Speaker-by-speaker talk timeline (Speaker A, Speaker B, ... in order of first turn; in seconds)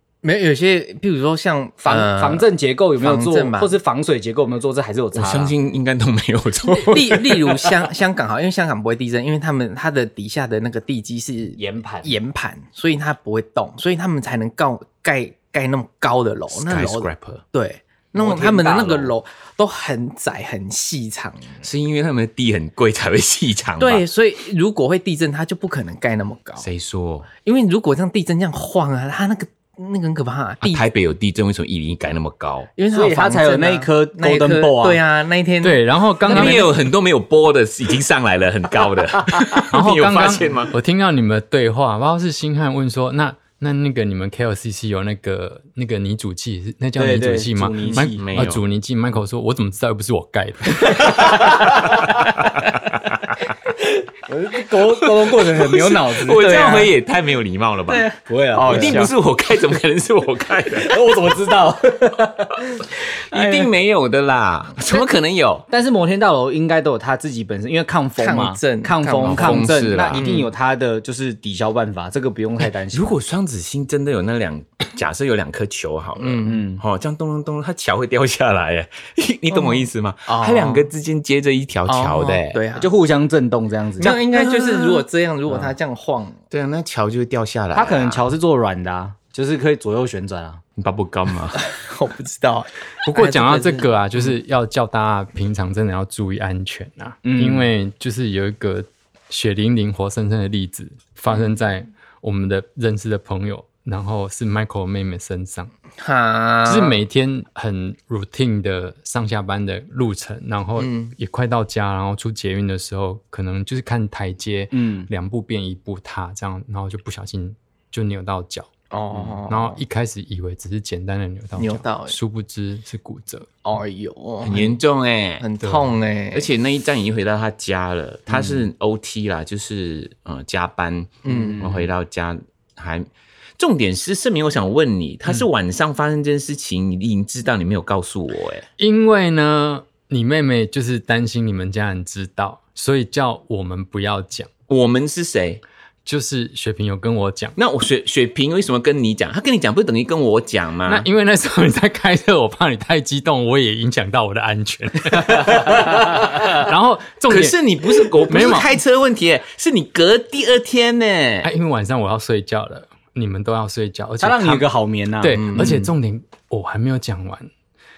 Speaker A: 0.2-2.5, 3.0-3.7, 6.7-21.6, 23.8-26.7, 27.4-30.8, 32.8-36.7, 56.3-56.9, 57.9-59.1, 63.4-63.7, 68.2-70.5, 76.2-76.6, 79.5-80.9, 81.9-82.9, 84.0-86.4, 91.6-94.3, 106.0-107.0, 110.8-111.1, 118.9-119.8, 121.6-122.2, 123.7-124.8, 125.4-126.5, 131.2-131.7, 165.3-165.9
Speaker B: 1.8-5.5, 11.6-12.1, 18.1-19.1, 32.9-35.0, 47.0-48.2, 54.3-56.6, 58.3-59.1, 60.8-62.9, 65.7-73.1, 76.5-76.8, 82.8-84.2, 87.7-90.6, 97.2-97.7, 114.7-115.1, 131.3-131.7, 164.2-165.7
Speaker C: 5.1-7.8, 16.5-17.4, 21.6-24.1, 26.6-27.3, 30.6-32.7, 36.3-40.7, 48.1-48.6, 52.8-53.1, 55.0-58.1, 58.7-61.1, 63.0-65.7, 69.2-70.2, 72.9-82.6, 84.0-85.0, 86.5-88.3, 90.8-91.6, 124.4-125.5, 126.3-138.7, 144.7-145.6, 147.6-151.1, 157.3-161.5
Speaker D: 35.6-36.7, 39.7-51.5, 93.0-105.7, 106.7-118.7, 119.5-123.5, 125.6-125.9, 138.8-144.5, 146.1-147.6, 150.9-158.7, 161.4-167.5